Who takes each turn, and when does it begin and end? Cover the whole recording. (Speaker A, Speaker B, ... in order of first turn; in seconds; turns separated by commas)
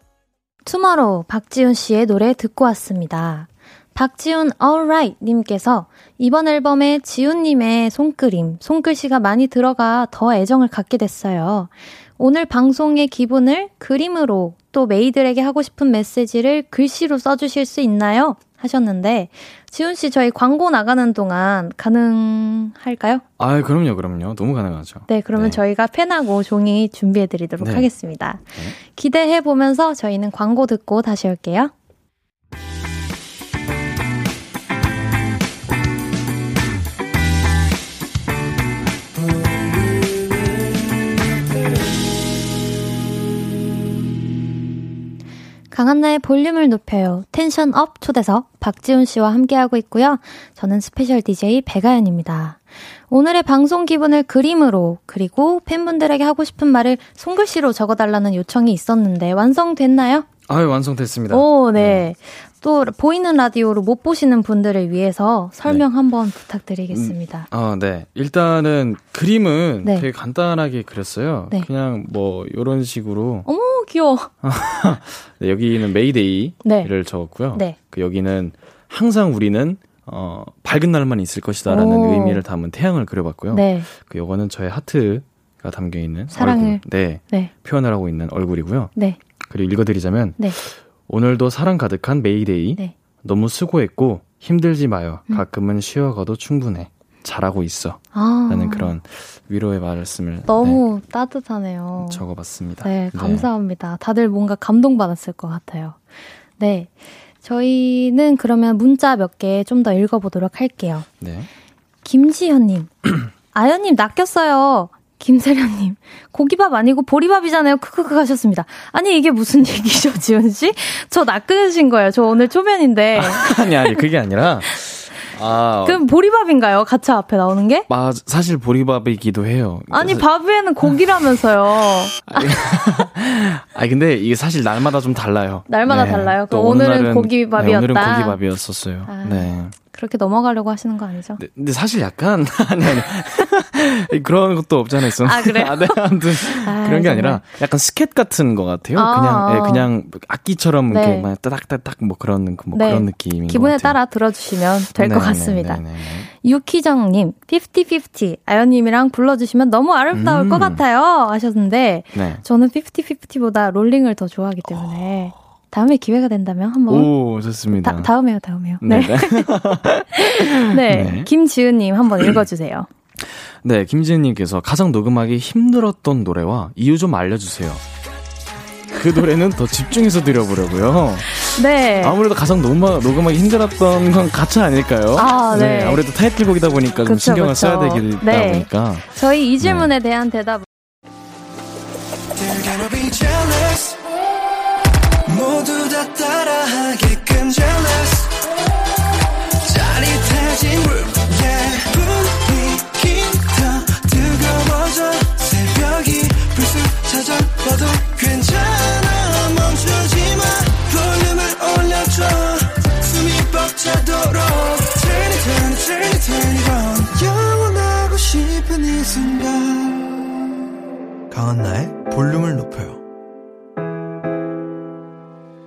Speaker A: 0.7-23.2, Speaker B: 23.4-25.6, Speaker A: 25.1-31.7, Speaker B: 27.6-27.9, Speaker A: 45.7-60.3, Speaker B: 60.5-62.1, Speaker A: 61.3-67.5, Speaker B: 66.9-73.5, Speaker A: 73.5-74.3, Speaker B: 74.4-88.9, Speaker A: 76.6-76.9, Speaker A: 81.7-82.4, Speaker A: 83.5-83.9, Speaker A: 86.3-87.5, Speaker B: 89.5-100.8, Speaker A: 98.1-99.0, Speaker A: 100.5-102.2, Speaker B: 102.0-103.5, Speaker A: 102.8-106.0, Speaker A: 106.6-106.9, Speaker A: 107.4-111.1, Speaker B: 111.2-111.5, Speaker A: 112.0-124.1, Speaker B: 123.2-126.0, Speaker A: 125.8-127.9, Speaker B: 127.9-130.3, Speaker A: 129.9-132.5, Speaker B: 132.3-139.8, Speaker A: 135.7-138.4, Speaker A: 139.1-141.4, Speaker B: 141.4-154.0, Speaker A: 145.2-147.4, Speaker A: 148.9-149.9, Speaker A: 150.9-151.3, Speaker A: 152.7-167.1, Speaker B: 154.9-156.3, Speaker B: 160.1-160.8, Speaker B: 162.1-162.4, Speaker B: 166.9-168.1, Speaker A: 167.8-172.9, Speaker B: 168.8-171.3, Speaker B: 173.2-177.8, Speaker B: 178.9-189.1, Speaker A: 181.4-182.2, Speaker A: 185.2-186.0, Speaker A: 187.1-190.7, Speaker B: 189.6-189.9, Speaker C: 192.4-194.0, Speaker C: 195.3-198.3, Speaker C: 199.7-219.9